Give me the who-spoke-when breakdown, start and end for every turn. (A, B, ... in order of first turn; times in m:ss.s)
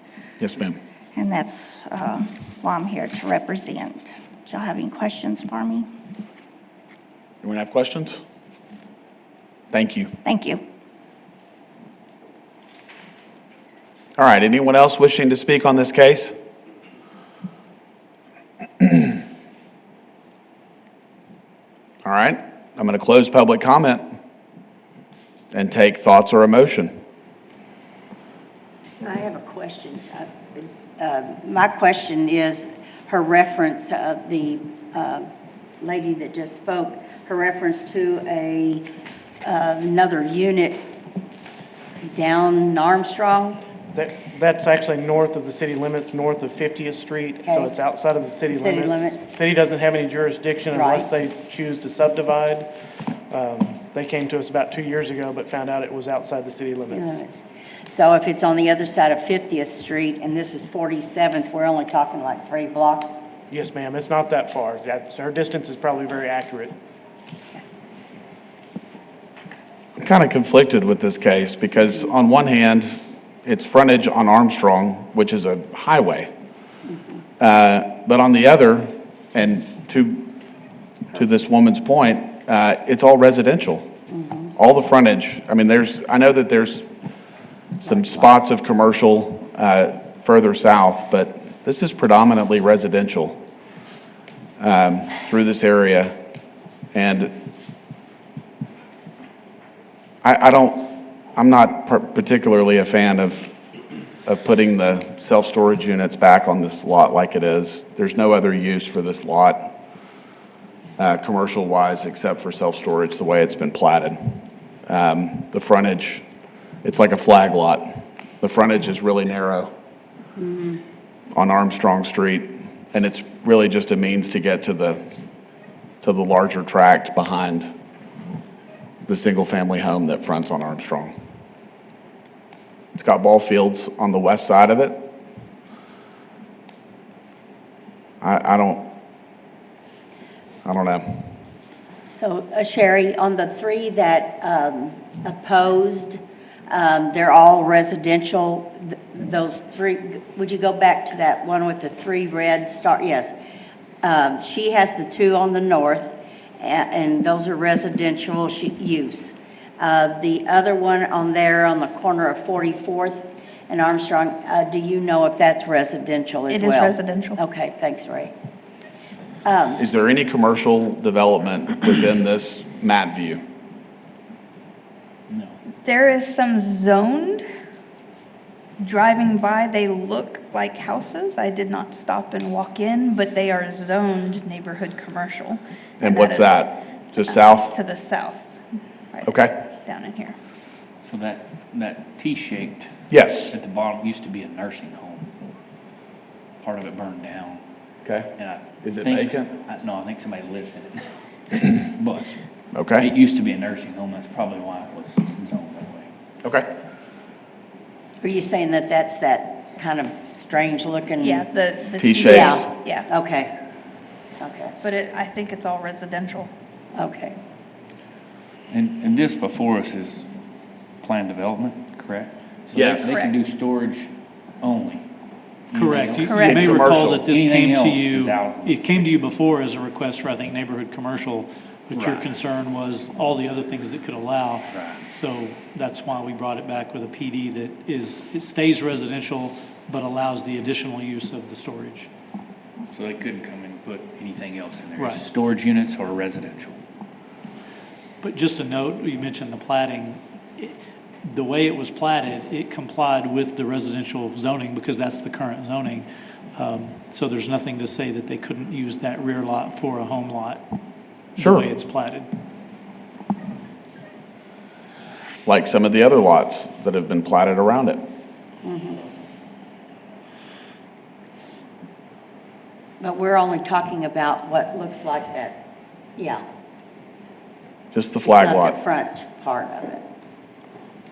0:00.4-0:00.8 A
0:01.2-0:05.8 B
0:07.4-0:08.2 A
0:09.7-0:10.2 A
0:14.2-0:16.3 A
0:22.0-0:24.0 A
0:25.5-0:26.9 A
0:29.0-0:35.3 C
0:35.8-0:38.8 C
0:39.4-0:40.8 C
0:42.1-0:43.6 C
0:43.9-0:52.7 D
0:47.4-0:47.7 C
0:48.5-0:49.3 C
0:50.7-0:51.1 C
0:53.3-0:57.2 D
0:56.9-1:03.2 C
1:03.5-1:06.7 D
1:10.0-1:16.3 A
1:17.4-1:20.3 A
1:21.1-1:23.9 A
1:24.1-1:24.5 C
1:24.6-1:26.9 A
1:27.8-1:28.2 C
1:27.8-1:33.4 A
1:34.6-1:36.1 A
1:36.9-1:37.3 A
1:40.2-1:43.5 A
1:44.2-1:49.8 A
1:51.0-1:56.2 A
1:56.8-1:59.7 A
2:00.4-2:00.8 C
2:01.3-2:05.0 A
2:06.0-2:07.7 A
2:09.0-2:11.1 A
2:12.9-2:15.1 A
2:18.2-2:18.9 A
2:20.6-2:21.3 A
2:22.0-2:33.3 C
2:34.0-2:48.3 C
2:46.5-2:47.4 E
2:49.4-2:49.8 C
2:49.8-2:53.4 A
2:55.3-2:55.6 F
2:55.8-2:57.4 E
2:58.8-3:08.6 E
3:06.0-3:07.7 A
3:09.1-3:10.3 E
3:09.2-3:09.6 A
3:11.0-3:12.9 F
3:13.1-3:13.5 A
3:13.5-3:15.3 F
3:16.6-3:17.6 F
3:18.0-3:19.5 A
3:18.4-3:22.4 F
3:22.7-3:23.1 A
3:22.9-3:26.1 F
3:26.4-3:26.7 A
3:28.2-3:31.4 C
3:31.2-3:33.1 E
3:32.0-3:32.6 A
3:32.2-3:33.5 C
3:34.4-3:34.7 C
3:34.8-3:36.5 E
3:36.9-3:37.4 C
3:38.7-3:40.2 F
3:41.0-3:44.1 F
3:42.7-3:43.1 A
3:43.0-3:43.4 E
3:44.6-3:45.0 F
3:45.7-3:49.2 F
3:45.7-4:02.1 G
3:46.2-3:46.7 E
3:46.4-3:47.3 A
3:51.9-3:52.3 F
3:54.7-3:55.0 F
4:02.9-4:06.8 F
4:05.0-4:05.2 G
4:08.2-4:20.7 G
4:21.3-4:22.3 G
4:21.4-4:21.7 A
4:25.4-4:28.0 A
4:28.6-4:29.0 C
4:33.0-4:35.6 C
4:36.2-4:36.4 C
4:37.9-4:38.8 A
4:38.2-4:40.0 C